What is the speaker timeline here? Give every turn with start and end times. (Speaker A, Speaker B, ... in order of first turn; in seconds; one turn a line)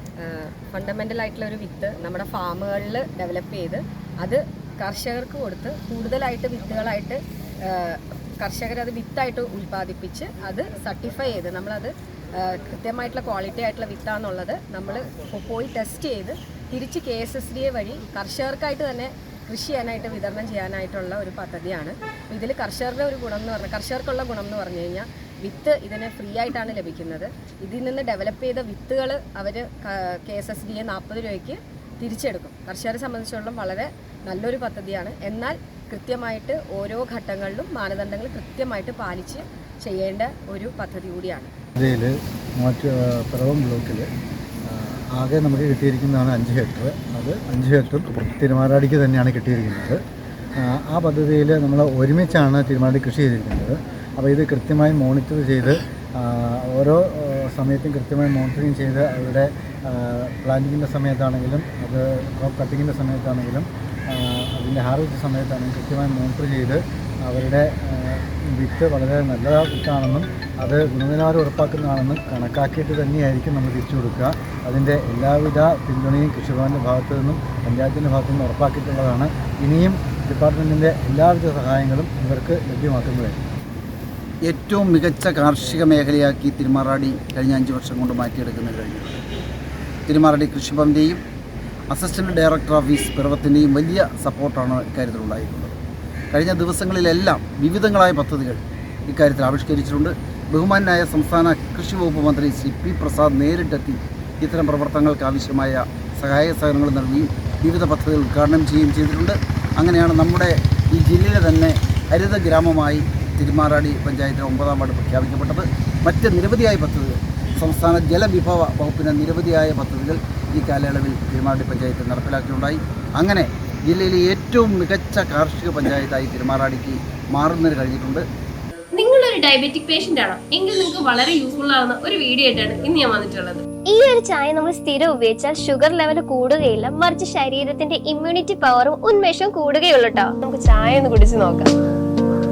Speaker A: 0.2-41.5
Speaker B: 41.8-44.1
Speaker B: 44.6-50.0
Speaker B: 50.6-83.4
Speaker C: 84.5-89.2
Speaker C: 90.1-91.2
Speaker C: 91.9-95.8
Speaker C: 96.3-128.2
Speaker D: 128.9-133.6
Speaker E: 133.9-141.6
Speaker D: 140.8-141.7